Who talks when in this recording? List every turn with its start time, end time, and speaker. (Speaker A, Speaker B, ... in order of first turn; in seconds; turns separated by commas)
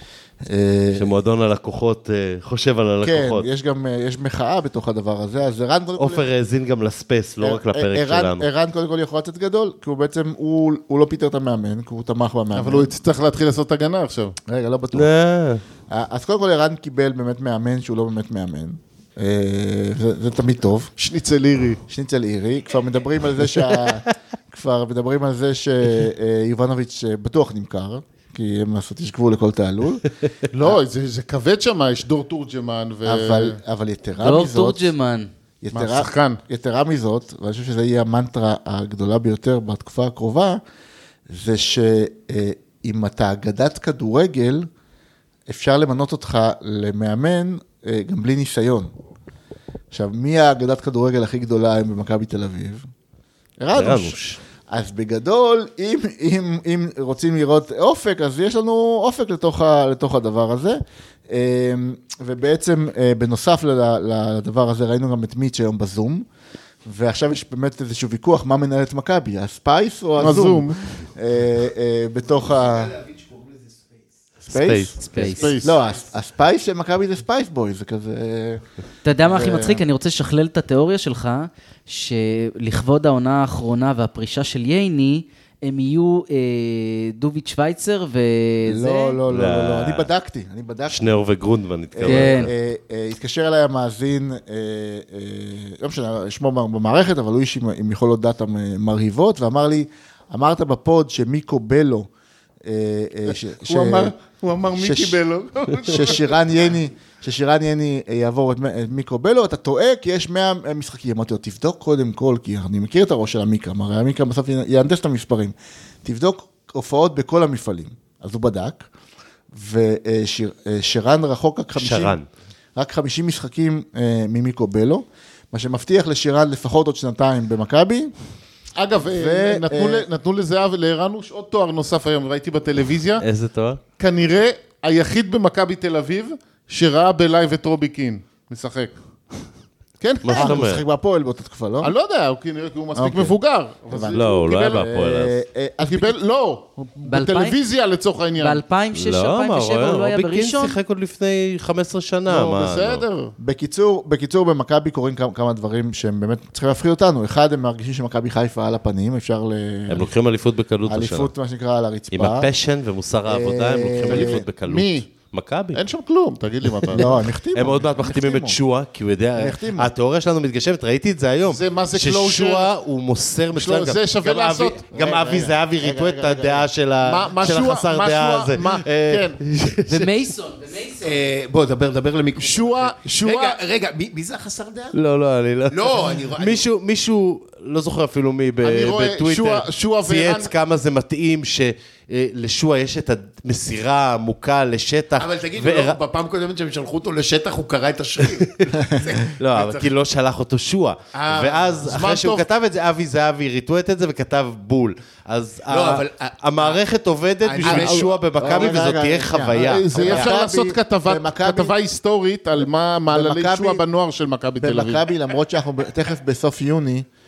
Speaker A: 0.4-1.1, Speaker B: 0.9-3.5, Speaker A: 3.0-6.3, Speaker B: 6.0-8.5, Speaker A: 7.4-12.9, Speaker C: 12.5-14.3, Speaker A: 14.5-15.1, Speaker B: 14.9-15.6, Speaker A: 15.9-20.9, Speaker C: 21.0-21.8, Speaker A: 21.9-30.0, Speaker C: 30.5-33.6, Speaker A: 33.0-34.9, Speaker D: 34.2-35.3, Speaker A: 35.6-40.6, Speaker C: 35.7-36.4, Speaker A: 41.3-44.7, Speaker A: 45.5-48.9, Speaker A: 49.9-52.9, Speaker A: 53.6-54.2, Speaker B: 53.7-54.4, Speaker A: 54.7-66.2, Speaker A: 66.8-73.0, Speaker C: 70.2-70.8, Speaker E: 72.6-74.0, Speaker A: 74.5-75.0, Speaker B: 74.5-75.3, Speaker D: 75.0-75.5, Speaker E: 75.2-76.0, Speaker C: 75.3-75.7, Speaker A: 75.6-78.6, Speaker D: 79.0-89.2, Speaker A: 79.2-79.8, Speaker A: 88.7-91.1, Speaker B: 89.3-90.1, Speaker B: 90.9-92.5, Speaker A: 91.9-102.1, Speaker D: 92.0-92.5, Speaker A: 102.6-104.2, Speaker C: 103.6-106.4, Speaker A: 104.7-105.2, Speaker A: 105.9-118.9, Speaker A: 119.5-122.2, Speaker B: 121.8-122.2, Speaker A: 122.8-128.1, Speaker C: 128.8-133.2, Speaker A: 129.1-130.1, Speaker B: 133.2-133.8, Speaker C: 134.0-139.0, Speaker C: 140.0-140.6, Speaker B: 140.2-140.8, Speaker A: 140.3-141.9, Speaker C: 141.8-144.9, Speaker A: 142.9-143.3, Speaker A: 143.9-146.1, Speaker B: 144.1-145.4, Speaker C: 145.8-148.6, Speaker D: 147.1-147.6, Speaker D: 148.4-150.8, Speaker B: 148.9-153.0, Speaker C: 152.3-153.3, Speaker A: 153.4-160.1, Speaker B: 159.9-161.3, Speaker A: 160.9-162.5, Speaker B: 162.1-165.8, Speaker A: 163.2-164.4, Speaker C: 164.1-165.1, Speaker C: 165.7-167.1, Speaker B: 166.9-180.2, Speaker A: 166.9-168.6, Speaker A: 169.3-169.9, Speaker C: 171.5-172.7, Speaker C: 173.5-174.9, Speaker A: 174.9-176.7, Speaker C: 177.0-179.4, Speaker D: 179.9-181.2, Speaker E: 181.0-185.0, Speaker C: 182.4-183.6, Speaker B: 184.9-196.0, Speaker E: 185.7-186.6, Speaker C: 188.6-190.5, Speaker E: 195.2-199.9, Speaker B: 199.4-210.3, Speaker E: 201.1-202.1, Speaker C: 201.9-202.4, Speaker E: 205.7-206.8, Speaker E: 207.4-208.1, Speaker C: 207.6-208.1, Speaker A: 208.4-211.7, Speaker C: 209.5-215.0, Speaker A: 212.6-213.8, Speaker A: 214.6-217.1